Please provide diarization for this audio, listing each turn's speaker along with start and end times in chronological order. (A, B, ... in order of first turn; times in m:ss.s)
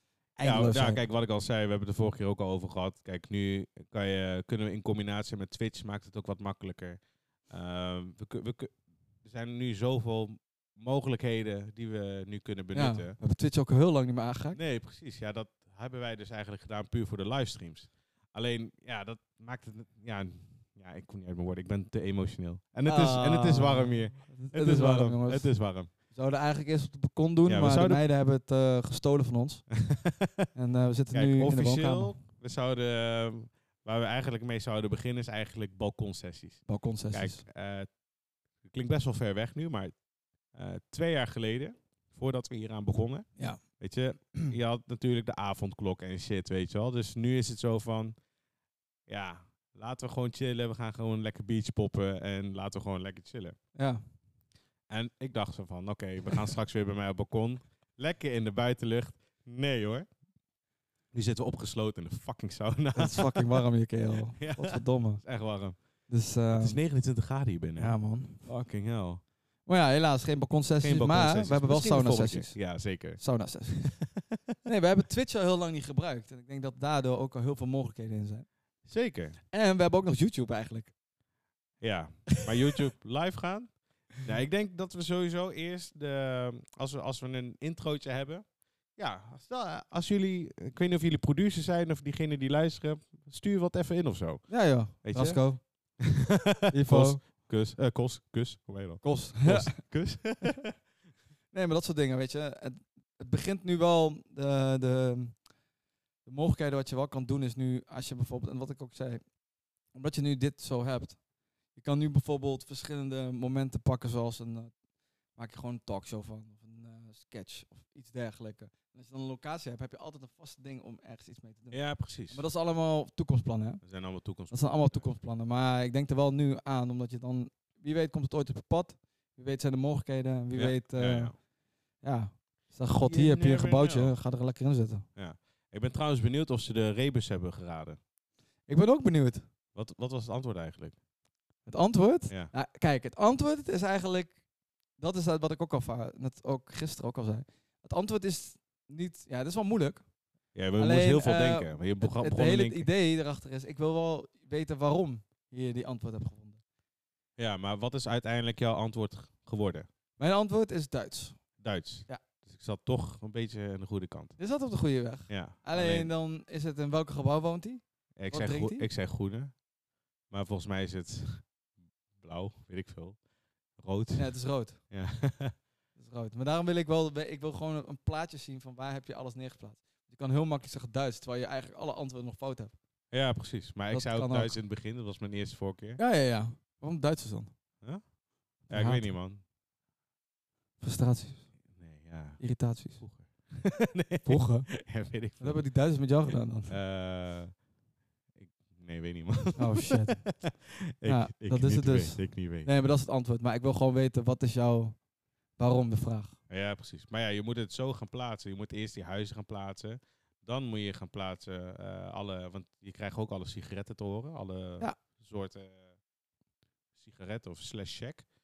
0:00.4-0:01.0 A
0:00.4-0:13.2 B
0:12.7-0:14.6 A
0:14.5-0:25.9 B
0:22.8-0:29.7 A
0:27.5-0:28.0 B
0:29.8-0:30.5 B
0:30.5-0:32.2 A
0:31.1-0:38.0 B
0:36.7-0:37.4 A
0:38.6-0:40.0 B
0:40.5-0:48.2 B
0:43.4-0:43.6 A
0:49.1-0:53.6 B
0:53.8-0:54.0 A
0:54.9-1:00.1 B
1:01.1-1:03.6 B
1:03.0-1:05.2 A
1:04.4-1:05.8 B
1:06.1-1:06.8 A
1:06.5-1:09.2 B
1:07.8-1:08.7 A
1:09.6-1:14.0 A
1:10.8-1:13.2 B
1:14.6-1:18.5 A
1:18.9-1:19.4 B
1:19.5-1:20.9 A
1:21.8-1:40.7 B
1:34.5-1:36.0 A
1:36.7-1:37.2 A
1:39.0-1:39.8 A
1:41.5-1:45.4 A
1:46.2-1:49.3 A
1:49.9-1:51.2 A
1:51.7-1:54.8 A
1:55.3-2:03.8 A
2:01.7-2:02.4 B
2:03.8-2:05.1 B
2:04.5-2:11.5 A
2:10.6-2:11.4 B
2:12.0-2:15.1 A
2:13.0-2:14.2 B
2:15.2-2:18.0 B
2:18.7-2:19.5 A
2:19.7-2:21.0 B
2:21.7-2:24.4 A
2:25.0-2:30.1 A
2:30.5-2:32.9 B
2:30.8-2:36.6 A
2:37.4-2:39.9 B
2:40.2-2:41.4 A
2:41.6-2:44.4 B
2:44.4-2:48.9 A
2:45.3-2:46.1 B
2:48.2-2:49.6 B
2:50.3-2:51.5 B
2:52.2-2:53.2 B
2:53.8-2:55.6 B
2:54.2-2:54.8 A
2:56.0-3:02.7 A
3:03.1-3:06.0 B
3:03.9-3:04.6 A
3:06.0-3:07.5 A
3:08.6-3:09.4 B
3:08.7-3:09.1 A
3:10.8-3:11.5 A
3:11.7-3:15.7 B
3:12.4-3:13.0 A
3:14.2-3:14.8 A
3:15.4-3:16.8 A
3:16.7-3:17.6 B
3:18.4-3:22.7 B
3:19.6-3:20.4 A
3:21.0-3:25.0 A
3:25.6-3:26.4 A
3:26.5-3:35.9 B
3:37.0-3:38.3 B